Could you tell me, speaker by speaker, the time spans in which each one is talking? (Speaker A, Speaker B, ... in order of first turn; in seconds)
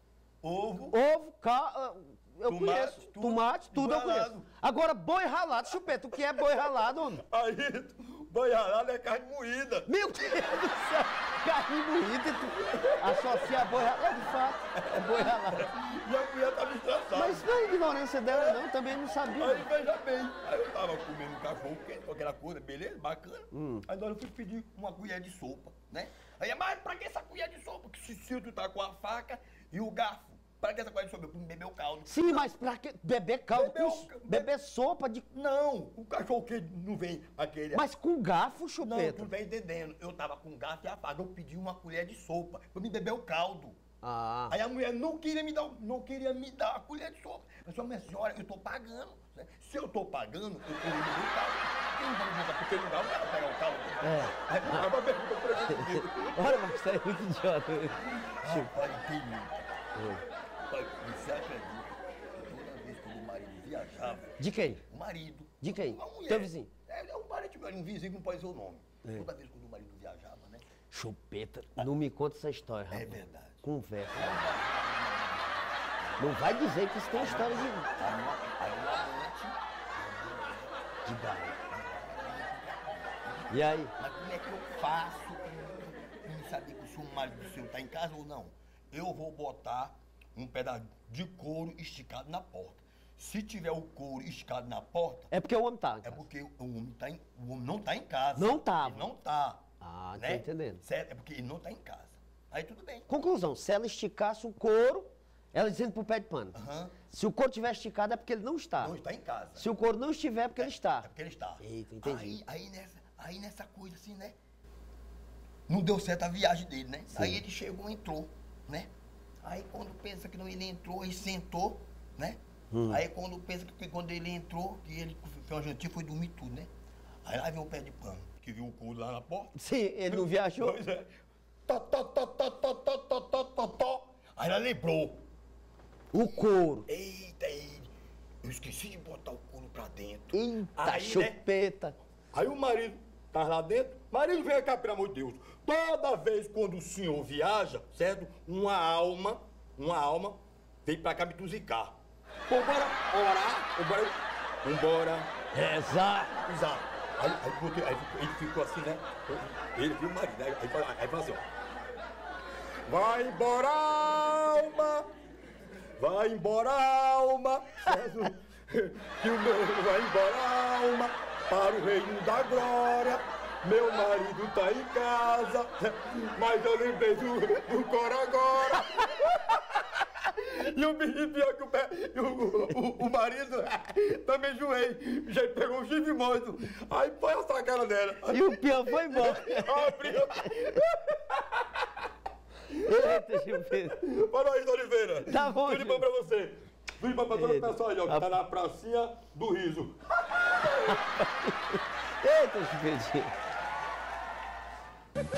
Speaker A: 0.4-1.0, 2.5-4.5, 7.3-10.4, 12.7-13.6, 14.8-17.5, 18.3-18.6, 19.3-32.5, 33.5-34.5, 35.3-38.0, 38.8-43.8, 44.5-56.8, 58.1-59.7, 60.7-64.4, 64.9-70.7, 72.9-76.4, 77.1-80.8, 81.7-95.3, 96.0-99.6, 100.2-103.1, 106.5-107.0, 108.8-109.7, 110.6-114.3, 115.7-118.9, 119.4-126.7, 127.2-129.5, 130.1-131.1, 131.7-135.2, 136.2-137.9, 138.4-141.4, 142.3-152.0, 152.5-155.3, 156.4-161.5, 162.9-165.1, 166.0-191.8, 192.9-200.0
Speaker B: 0.9-7.2, 9.9-15.7, 17.1-19.7, 23.5-23.9, 32.0-35.3, 37.7-39.3, 44.0-44.6, 54.0-54.9, 55.7-58.9, 60.0-60.2, 64.4-64.8, 65.6-66.7, 70.9-74.6, 76.2-77.9, 81.0-81.6, 83.5-83.9, 95.3-96.2, 98.4-99.1, 99.8-100.8, 103.1-109.0, 109.6-111.1, 111.6-112.4, 117.1-117.4, 122.7-123.0, 129.5-130.8, 136.1-136.9, 140.3-142.0, 155.5-156.4, 188.3-190.6, 192.8-194.0, 195.3-196.1, 197.3-198.4, 200.8-203.3